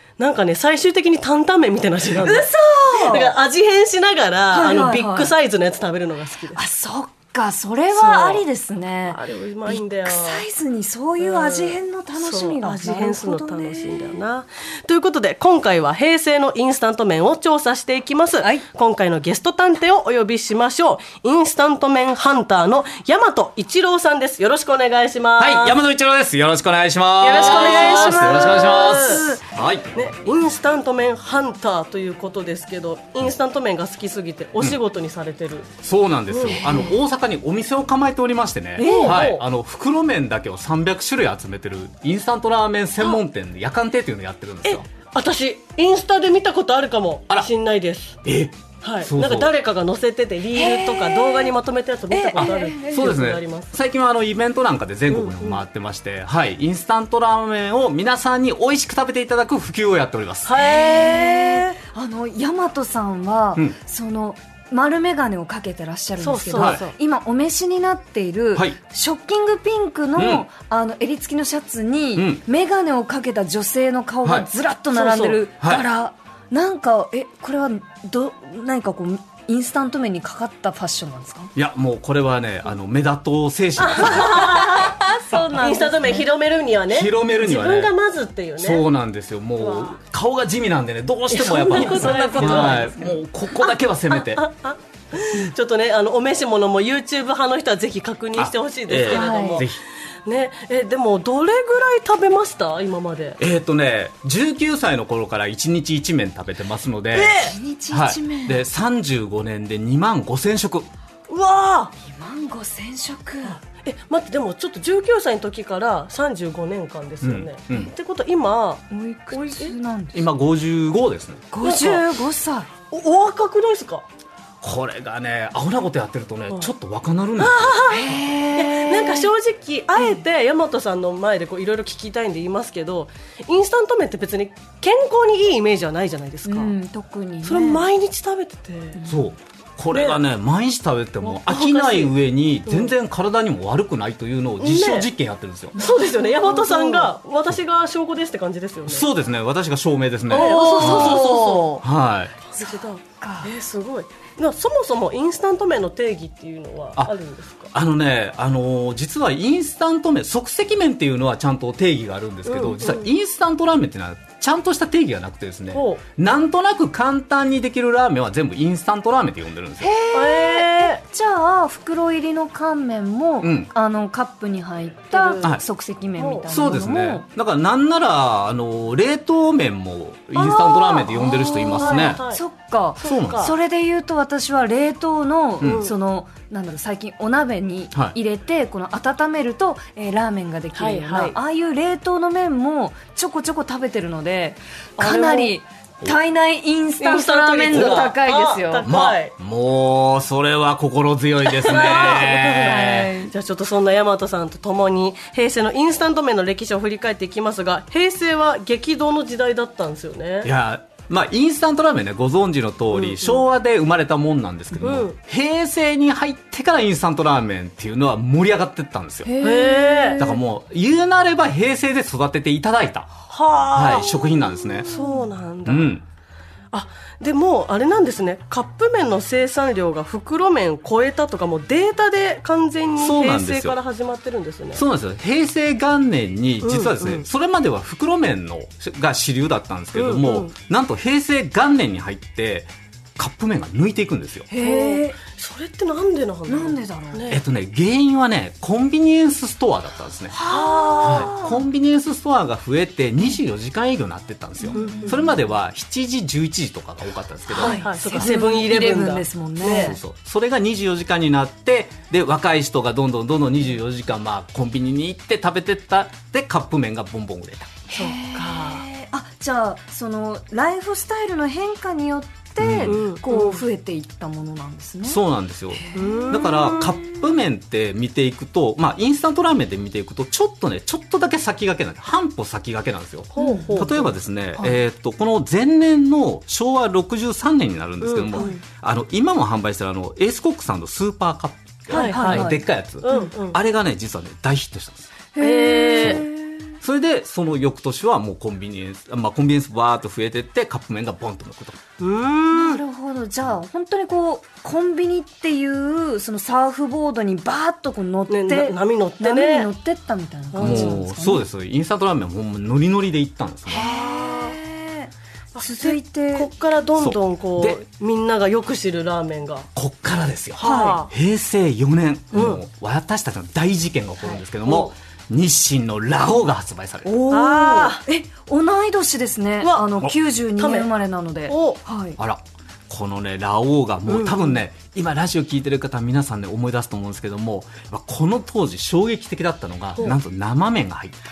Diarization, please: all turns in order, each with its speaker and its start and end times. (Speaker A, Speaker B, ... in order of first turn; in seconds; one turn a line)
Speaker A: 0.2-6.6
Speaker B: 2.2-3.4
Speaker B: 4.5-5.3
Speaker B: 6.5-14.2
Speaker A: 7.9-8.4
Speaker A: 9.1-10.4
Speaker A: 11.2-25.8
Speaker B: 18.4-18.7
Speaker C: 25.4-29.9
Speaker A: 27.2-29.2
Speaker B: 27.3-29.4
Speaker A: 29.9-35.7
Speaker C: 35.8-44.9
Speaker A: 36.3-36.9
Speaker B: 38.8-39.3
Speaker A: 38.8-39.4
Speaker A: 44.6-48.2
Speaker C: 48.2-49.5
Speaker A: 48.8-53.7
Speaker B: 50.5-51.6
Speaker B: 52.1-53.1
Speaker C: 52.4-60.5
Speaker A: 55.1-55.6
Speaker A: 60.5-61.8
Speaker B: 60.6-81.5
Speaker A: 66.2-66.9
Speaker C: 66.5-66.8
Speaker C: 70.2-70.5
Speaker C: 72.2-72.4
Speaker C: 74.2-74.5
Speaker A: 74.9-75.5
Speaker C: 75.6-75.8
Speaker C: 81.5-84.7
Speaker A: 83.8-88.8
Speaker B: 84.2-86.3
Speaker C: 86.9-87.9
Speaker C: 88.6-94.4
Speaker A: 89.6-90.0
Speaker A: 91.3-92.9
Speaker B: 91.7-93.2
Speaker A: 93.6-103.4
Speaker C: 98.4-99.8
Speaker B: 99.1-99.7
Speaker C: 103.4-107.4
Speaker A: 107.1-107.5
Speaker B: 107.3-108.6
Speaker C: 107.9-110.9
Speaker A: 111.3-111.9
Speaker B: 112.0-113.6
Speaker A: 113.4-119.7
Speaker C: 117.2-117.9
Speaker B: 118.9-120.3
Speaker C: 120.1-121.5
Speaker B: 121.5-122.7
Speaker A: 121.6-122.0
Speaker A: 122.9-124.0
Speaker C: 124.6-127.8
Speaker A: 127.4-136.7
Speaker B: 127.9-129.3
Speaker B: 130.0-130.2
Speaker B: 136.5-137.9
Speaker A: 137.4-139.0
Speaker B: 139.0-139.2
Speaker C: 139.1-145.7
Speaker A: 139.9-140.2
Speaker A: 141.2-142.2
Speaker A: 142.7-142.9
Speaker A: 144.6-145.1
Speaker B: 145.8-147.1
Speaker A: 145.8-149.1
Speaker C: 148.9-152.3
Speaker A: 150.3-151.8
Speaker B: 150.3-151.8
Speaker A: 152.4-157.7
Speaker B: 152.6-153.5
Speaker C: 157.7-169.9
Speaker A: 162.5-163.1
Speaker A: 165.7-166.0
Speaker B: 169.8-177.2
Speaker A: 170.1-171.0
Speaker C: 173.4-173.7
Speaker A: 175.1-175.6
Speaker A: 176.2-176.5
Speaker C: 176.5-182.2
Speaker B: 180.4-198.9
Speaker A: 181.8-182.4
Speaker A: 183.0-183.5
Speaker C: 183.0-183.5
Speaker C: 185.6-185.9
Speaker A: 185.6-185.9
Speaker A: 190.7-191.4
Speaker A: 195.0-195.5
Speaker A: 197.0-199.3
Speaker C: 198.8-203.1
Speaker A: 201.5-210.5
Speaker B: 202.0-203.3
Speaker C: 210.4-219.3
Speaker A: 212.9-213.4
Speaker A: 214.8-215.2
Speaker B: 219.2-220.4
Speaker A: 219.4-220.2
Speaker C: 220.2-223.1
Speaker A: 223.3-225.9
Speaker C: 223.7-224.9
Speaker B: 224.8-225.2
Speaker C: 225.6-226.1
Speaker A: 226.7-234.8
Speaker C: 233.0-233.8
Speaker C: 234.7-244.5
Speaker A: 236.6-237.2
Speaker A: 239.9-240.5
Speaker B: 244.5-245.2
Speaker A: 244.6-247.4
Speaker B: 246.5-247.2
Speaker C: 247.3-250.4
Speaker B: 250.3-251.6
Speaker A: 250.5-251.3
Speaker C: 251.0-257.9
Speaker B: 254.6-255.4
Speaker A: 254.7-255.3
Speaker B: 257.6-260.0
Speaker A: 257.6-259.9
Speaker C: 259.7-267.8
Speaker B: 267.9-275.2
Speaker A: 267.9-268.9
Speaker C: 272.6-273.0
Speaker A: 272.9-273.6
Speaker C: 275.1-295.1
Speaker B: 275.7-277.1
Speaker A: 275.9-277.0
Speaker A: 283.4-284.1
Speaker B: 283.4-283.8
Speaker A: 288.0-288.6
Speaker B: 288.4-288.6
Speaker B: 291.9-293.3
Speaker A: 291.9-292.5
Speaker A: 293.0-293.6
Speaker B: 295.4-296.8
Speaker A: 295.4-296.2
Speaker C: 296.0-296.2
Speaker C: 296.8-301.8
Speaker A: 302.0-302.8
Speaker B: 302.5-311.4
Speaker A: 308.3-309.7
Speaker A: 310.5-311.0
Speaker C: 310.6-313.9
Speaker B: 313.7-316.5
Speaker A: 313.7-314.6
Speaker A: 315.5-319.7
Speaker C: 317.0-317.8
Speaker C: 319.8-327.1
Speaker A: 320.6-321.1
Speaker B: 320.6-321.0
Speaker A: 322.3-322.6
Speaker A: 324.7-324.9
Speaker B: 327.1-332.2
Speaker A: 327.3-328.0
Speaker A: 329.6-330.0
Speaker A: 330.6-330.9
Speaker A: 331.5-331.8
Speaker C: 332.2-341.2
Speaker A: 334.1-334.6